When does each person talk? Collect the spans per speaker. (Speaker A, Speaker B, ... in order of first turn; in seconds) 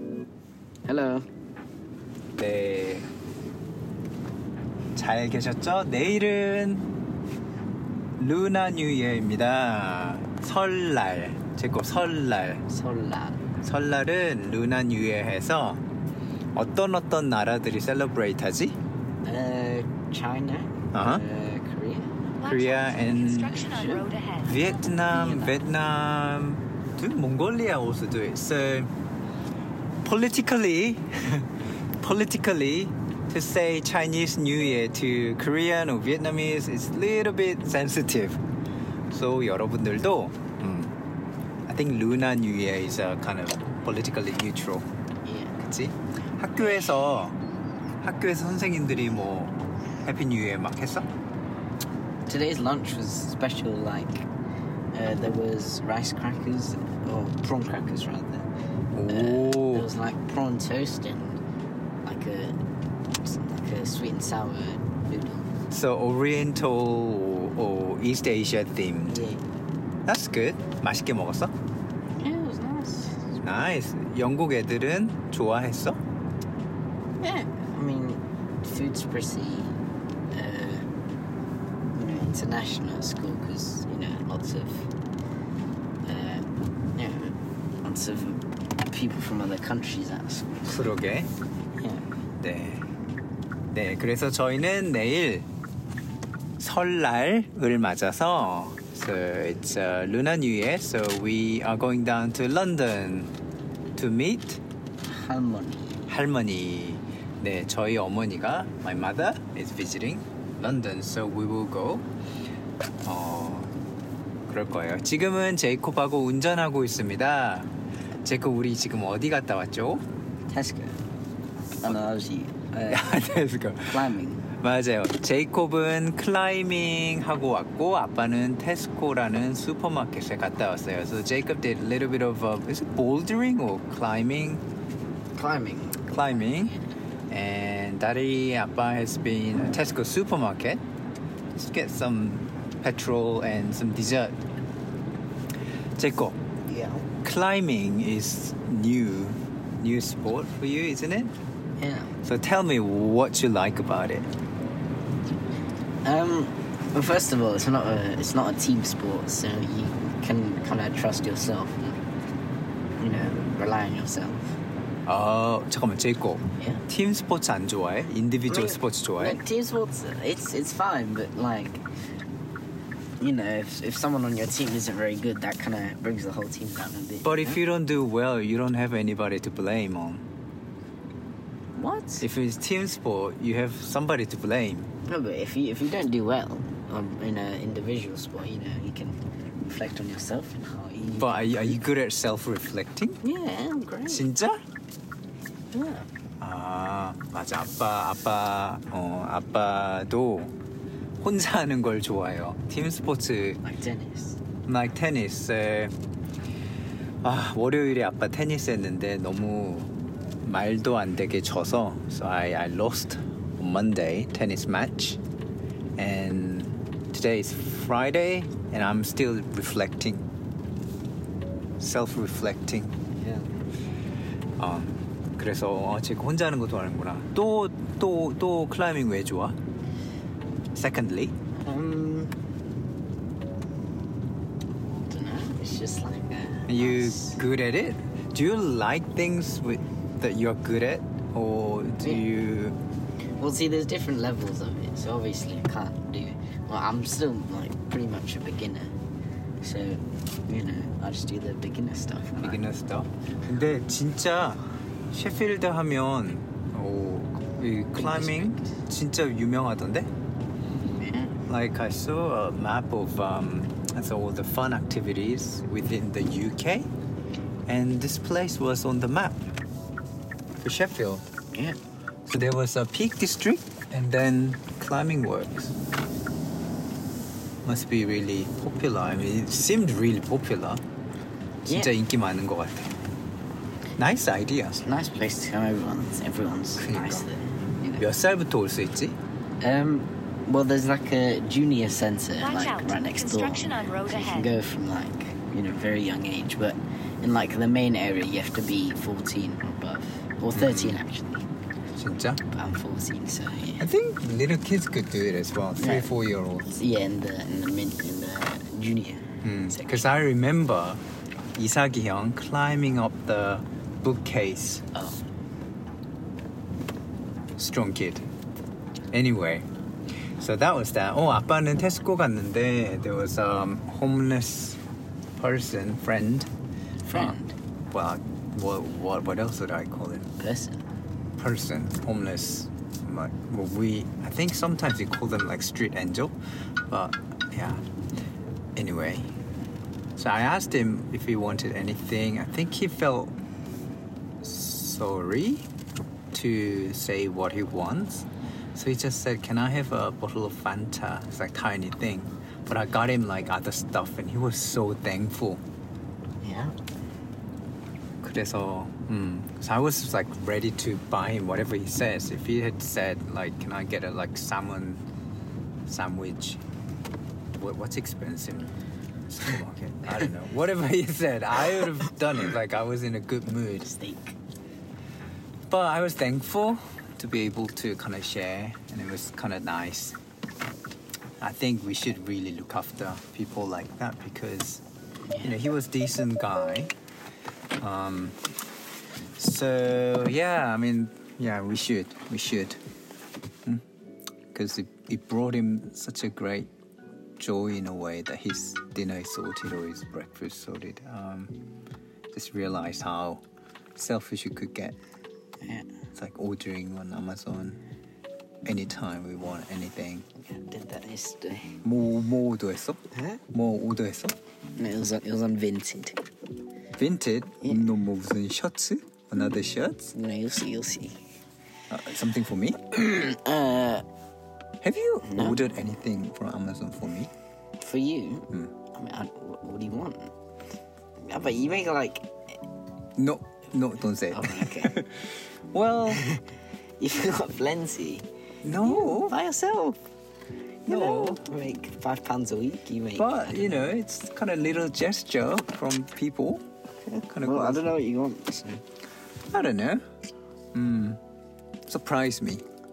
Speaker A: 0.9-1.2, 12.7-13.4, 19.2-22.3, 23.6-24.1, 25.0-25.6, 45.2-45.5, 52.3-54.3, 54.9-58.5, 59.1-61.4, 62.0-62.6, 63.1-65.5, 69.1-69.4, 72.2-73.3, 77.2-79.8, 80.3-80.9, 81.9-84.9, 86.0-90.9, 91.8-92.0, 105.0-106.0, 120.5-121.0, 121.8-123.2, 123.9-124.5, 135.3-136.9, 146.7-147.1, 151.8-152.1, 156.0-162.0, 163.0-164.6, 168.5-171.8, 173.2-177.6, 181.8-182.2, 185.1-191.8, 193.2-194.2, 195.7-196.1, 203.6-204.4, 223.2-223.5, 231.6-232.3, 235.1-237.4, 243.4-248.9, 249.6-252.6, 257.9-258.8, 261.0-261.4, 281.7-281.9, 284.8-288.1, 289.6-301.4, 302.5-303.9, 305.8-306.1, 306.7-310.1, 314.9-315.2, 327.0-327.5, 330.4-330.9, 356.4-356.8, 373.8-374.4, 405.6-405.9, 410.4-411.8, 414.8-416.2, 420.1-421.2, 422.9-424.1, 425.2-425.6, 427.8-430.3, 431.2-432.3, 434.3-435.1, 436.1-436.4, 437.0-440.0, 440.9-443.9, 447.0-448.8
Speaker B: 2.4-3.1, 5.0-6.9, 8.2-12.6, 13.6-15.8, 16.5-18.8, 20.9-21.2, 22.4-23.7, 24.4-28.9, 30.0-38.4, 39.1-41.0, 41.7-44.9, 45.6-47.4, 48.0-51.1, 58.9-59.9, 65.7-69.2, 70.1-71.5, 73.4-76.0, 90.7-91.3, 92.4-92.8, 93.7-95.5, 96.6-103.3, 104.0-104.6, 106.1-112.0, 113.0-113.7, 114.5-117.7, 118.2-120.1, 122.9-134.6, 136.1-136.7, 137.3-140.8, 141.5-144.4, 146.0-146.4, 147.2-151.3, 152.2-154.3, 165.1-169.4, 177.2-180.3, 182.2-184.9, 191.2-193.2, 194.1-194.6, 196.4-200.6, 201.2-203.6, 204.7-205.9, 207.2-209.9, 210.4-215.2, 216.0-220.2, 221.8-223.0, 224.6-229.6, 230.7-231.3, 236.7-242.8, 252.4-260.1, 261.5-266.9, 267.7-269.4, 270.6-271.2, 272.3-275.8, 277.6-280.8, 281.7-282.9, 284.0-284.8, 286.8-287.3, 288.0-289.1, 300.5-301.0, 301.9-302.4, 303.8-306.7, 309.4-311.0, 311.6-314.8, 317.6-318.3, 319.1-319.7, 320.4-324.8, 325.4-326.5, 327.1-327.4, 327.9-330.3, 331.4-336.4, 336.9-337.8, 338.8-339.3, 340.2-343.4, 344.4-345.7, 346.3-355.6, 358.2-365.0, 365.9-366.6, 367.6-368.7, 369.3-373.9, 375.7-380.2, 381.4-384.8, 385.4-386.9, 387.8-388.4, 389.4-392.8, 394.5-396.7, 397.4-401.6, 402.3-403.4, 403.9-404.9, 406.1-407.8, 408.6-410.3, 411.8-413.0, 413.5-414.4, 416.9-420.1, 421.9-422.8, 424.8-427.3, 433.2-436.2, 438.6-439.3, 440.9-441.4, 443.2-446.6, 447.3-447.9, 449.5-450.0, 450.7-451.2, 451.9-452.6
Speaker C: 22.4-24.7, 292.4-294.5